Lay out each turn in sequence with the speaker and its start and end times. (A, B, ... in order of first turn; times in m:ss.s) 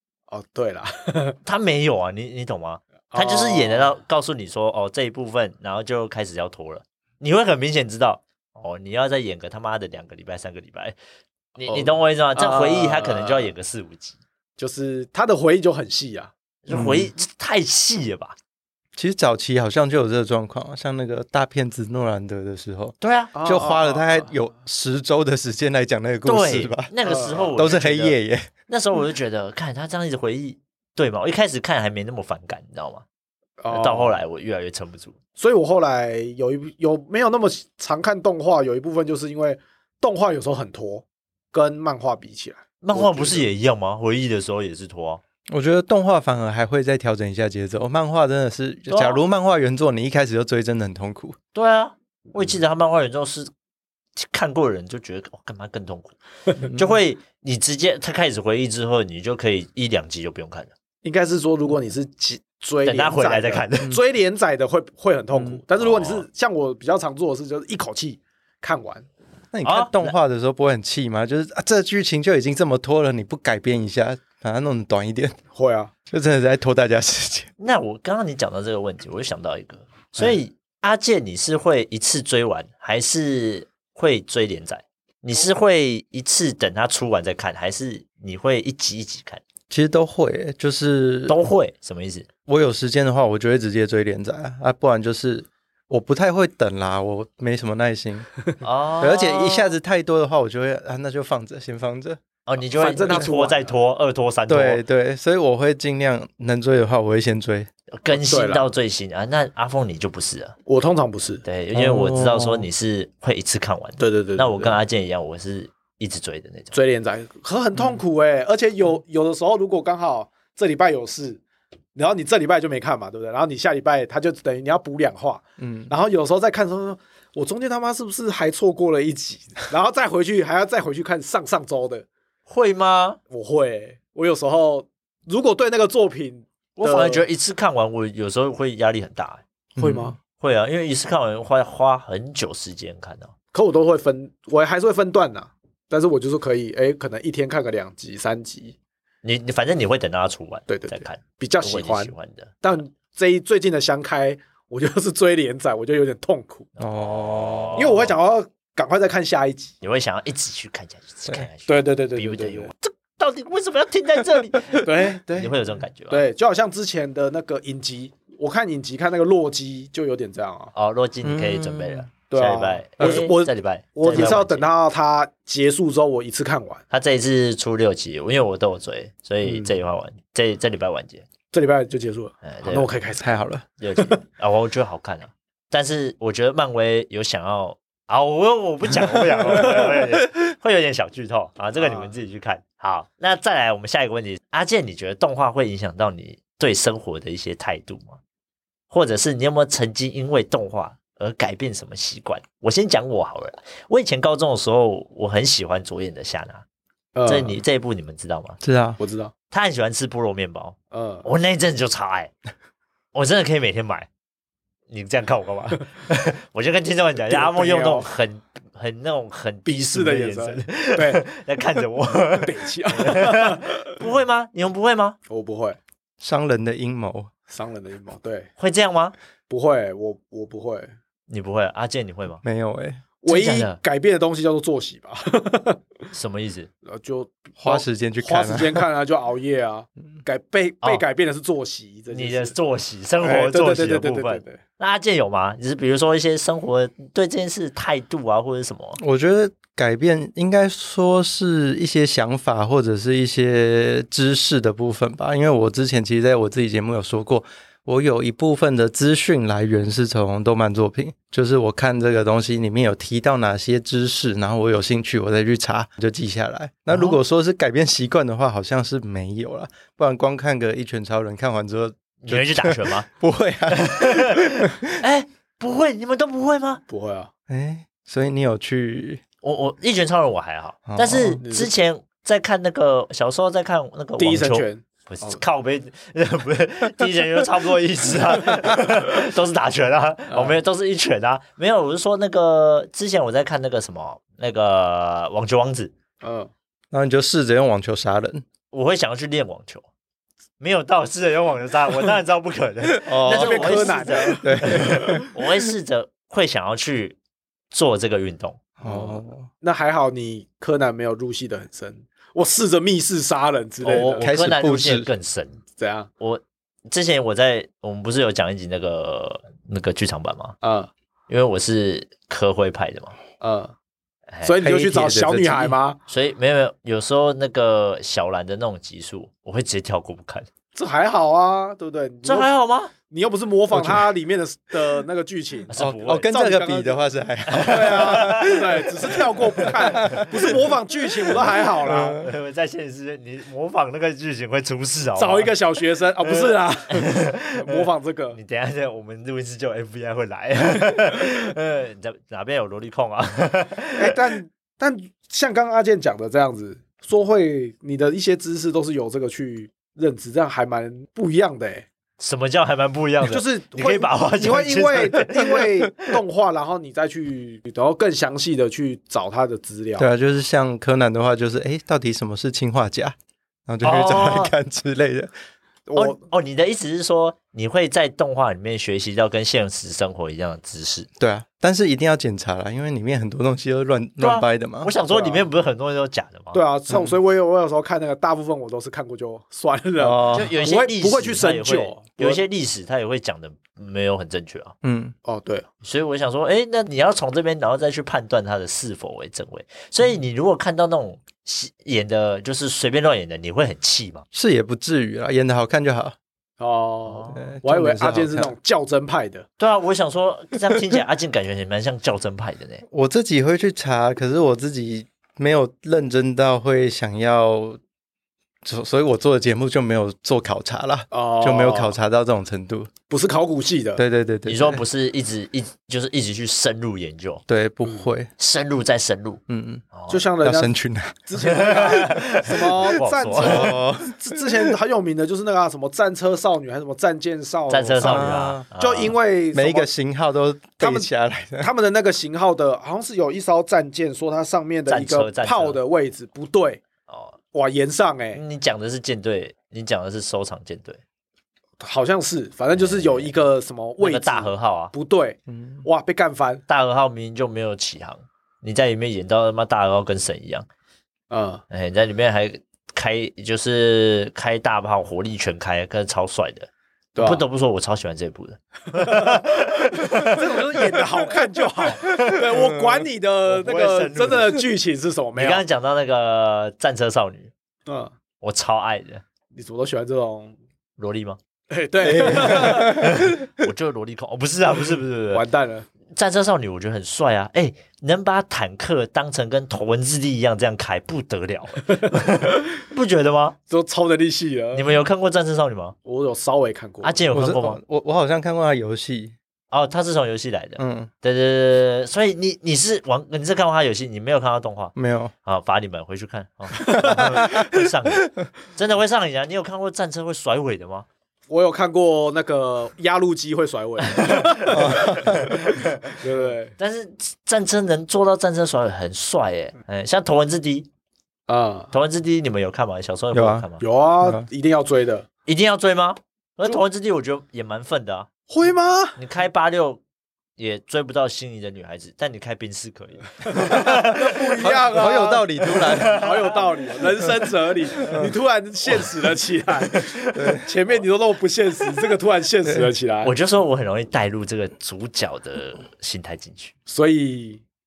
0:00.3-0:01.4 A
0:01.4-0:10.9 B
0:03.1-0:04.0 A
0:11.6-0:14.2 B
0:11.7-0:13.5 A
0:14.6-0:16.3 A
0:16.6-0:18.4 B
0:16.7-0:17.1 C
0:19.0-0:26.9 C
0:23.0-0:23.3 B
0:23.3-0:24.3 A
0:26.2-0:33.0 B
0:27.0-0:27.6 A
0:27.5-0:28.5 C
0:33.6-0:34.2 A
0:33.7-0:35.1 B
0:35.4-0:43.5 A
0:42.8-0:45.2 B
0:45.5-0:51.4 C
0:48.9-0:49.2 B
0:51.5-0:53.5 B
0:54.2-1:00.7 B
1:01.0-1:09.0 A
1:02.8-1:04.0 B
1:05.8-1:06.2 B
1:09.5-1:15.4 C
1:09.6-1:10.1 B
1:15.5-1:15.9 A
1:16.1-1:17.5 C
1:17.6-1:29.4 B
1:29.7-1:31.4 C
1:31.3-1:32.3 B
1:32.5-1:38.3 C
1:38.6-1:39.7 B
1:39.0-1:42.2 C
1:42.4-1:44.8 B
1:42.8-1:43.7 A
1:44.5-1:47.7 C
1:47.9-1:50.5 B
1:48.1-1:48.6 A
1:50.6-1:51.4 A
1:51.4-1:56.7 B
1:51.7-1:52.7 C
1:54.0-1:54.8 A
1:56.7-2:01.4 A
2:01.9-2:12.0 A
2:05.6-2:05.9 C
2:12.5-2:13.2 B
2:13.3-2:17.2 A
2:16.8-2:19.4 B
2:19.8-2:20.2 C
2:19.8-2:20.2 A
2:20.4-2:23.3 B
2:23.5-2:28.7 A
2:29.2-2:32.6 B
2:30.7-2:36.7 A
2:36.8-2:38.1 B
2:36.8-2:38.0 C
2:37.8-2:39.7 A
2:39.8-2:46.2 B
2:41.7-2:42.7 A
2:44.8-2:45.5 A
2:46.1-2:50.7 A
2:50.7-2:54.6 B
2:51.2-2:52.1 C
2:52.3-2:56.8 A
2:56.9-3:01.2 B
2:59.4-2:59.8 A
3:01.5-3:03.4 A
3:02.4-3:02.9 B
3:03.2-3:03.6 C
3:03.8-3:18.2 B
3:11.8-3:12.1 A
3:18.9-3:26.6 B
3:27.1-3:27.6 A
3:27.2-3:28.6 B
3:28.6-3:29.0 C
3:29.0-3:29.3 A
3:29.5-3:32.3 B
3:30.9-3:31.2 A
3:33.1-3:34.1 B
3:34.9-3:45.2 B
3:37.3-3:38.1 A
3:39.6-3:41.2 A
3:42.4-3:43.9 A
3:45.3-3:45.8 A
3:46.2-3:47.3 C
3:47.5-3:48.5 A
3:48.6-3:49.1 B
3:49.5-3:50.9 A
3:51.3-3:52.4 B
3:52.4-3:53.0 C
3:53.2-3:55.8 A
3:53.3-3:53.8 B
3:56.1-3:56.7 B
3:56.8-4:02.6 A
3:57.6-3:58.8 C
4:02.1-4:09.0 B
4:03.2-4:04.6 A
4:09.0-4:34.9 C
4:26.9-4:27.2 B
4:32.2-4:33.1 B
4:33.7-4:36.8 B
4:36.9-4:37.3 A
4:37.5-4:39.2 C
4:39.4-4:55.9 B
4:40.9-4:41.4 C
4:41.4-4:41.7 A
4:44.2-4:45.4 A
4:50.3-4:50.6 A
4:56.2-4:56.5 A
4:56.9-4:58.4 C
4:58.7-4:59.8 B
5:00.6-5:07.2 B
5:03.0-5:05.3 C
5:03.2-5:05.2 A
5:07.7-5:08.6 B
5:08.8-5:09.5 C
5:08.8-5:14.3 A
5:13.8-5:15.6 B
5:14.2-5:15.1 C
5:15.8-5:16.1 A
5:16.2-5:20.6 B
5:20.6-5:20.9 A
5:21.3-5:23.2 B
5:23.4-5:23.7 A
5:24.4-5:26.0 A
5:24.6-5:25.8 C
5:26.1-5:30.5 B
5:30.7-5:32.5 A
5:32.2-5:32.9 B
5:33.1-5:37.0 A
5:33.7-5:34.1 C
5:35.7-5:36.3 B
5:35.8-5:40.6 C
5:37.5-5:38.6 B
5:37.6-5:42.2 A
5:39.9-5:40.2 B
5:41.3-5:42.2 C
5:42.2-5:45.6 B
5:45.2-5:48.4 A
5:46.2-5:54.2 B
5:54.0-6:01.8 A
6:02.2-6:06.1 B
6:03.2-6:10.1 A
6:10.0-6:13.2 C
6:13.7-6:15.3 C
6:13.8-6:14.5 B
6:15.9-6:16.2 A
6:16.0-6:21.1 B
6:21.2-6:24.9 C
6:24.2-6:26.6 B
6:25.1-6:25.5 A
6:26.5-6:32.4 A
6:26.9-6:27.2 C
6:30.0-6:30.5 C
6:30.3-6:34.7 B
6:34.8-6:35.1 C
6:35.2-6:35.6 A
6:35.8-6:44.2 B
6:44.3-6:46.1 C
6:46.6-6:49.5 A
6:47.1-6:47.5 B
6:47.3-6:48.5 C
6:49.6-6:52.8 B
6:52.9-6:57.8 C
6:58.6-7:02.9 C
7:01.1-7:02.0 A
7:03.1-7:04.0 A
7:04.0-7:04.8 C
7:04.5-7:07.4 B
7:07.5-7:08.3 C
7:08.4-7:09.4 B
7:09.5-7:09.8 C
7:09.9-7:10.2 B
7:10.1-7:10.7 A
7:10.4-7:11.2 C
7:11.3-7:19.9 A
7:11.4-7:13.7 B
7:13.4-7:14.7 C
7:17.7-7:19.1 B
7:18.0-7:18.7 C
7:19.5-7:21.7 C
7:20.8-7:26.8 A
7:24.9-7:25.8 B
7:27.1-7:27.4 B
7:27.5-7:28.4 A
7:28.3-7:31.0 B
7:31.8-7:36.6 A
7:32.7-7:33.3 B
7:34.0-7:34.9 B
7:35.5-7:35.8 C
7:36.7-7:40.6 B
7:41.3-7:41.6 A
7:41.7-7:51.0 B
7:47.1-7:47.4 A
7:48.9-7:55.6 A
7:51.8-7:52.6 B
7:53.4-7:54.6 B
7:55.4-7:57.5 B
7:57.9-7:58.1 A
7:58.4-7:59.2 B
7:59.5-8:00.5 A
8:01.0-8:01.4 B
8:01.7-8:03.1 A
8:02.0-8:03.4 C
8:02.2-8:05.4 B
8:05.3-8:05.8 A
8:06.1-8:13.6 B
8:13.7-8:15.0 A
8:14.7-8:15.9 B
8:16.0-8:17.2 A
8:17.0-8:17.8 B
8:17.3-8:19.3 C
8:19.7-8:31.1 B
8:20.8-8:21.1 C
8:25.0-8:25.3 C
8:26.8-8:27.3 A
8:27.0-8:27.7 C
8:31.5-8:36.7 A
8:34.1-8:36.2 B
8:34.7-8:35.5 C
8:36.8-8:40.9 B
8:41.5-8:41.9 A
8:41.9-8:43.8 B
8:43.3-8:43.6 C
8:43.8-8:45.3 A
8:45.4-8:48.3 B
8:48.5-8:49.2 A
8:49.2-8:50.0 B
8:50.6-8:54.7 B
8:53.4-9:03.3 A
8:54.6-8:56.2 C
8:55.7-8:56.6 B
8:58.0-8:58.3 C
8:59.9-9:00.6 B
9:00.4-9:00.6 C
9:02.6-9:02.9 C
9:03.2-9:06.7 B
9:06.9-9:07.6 A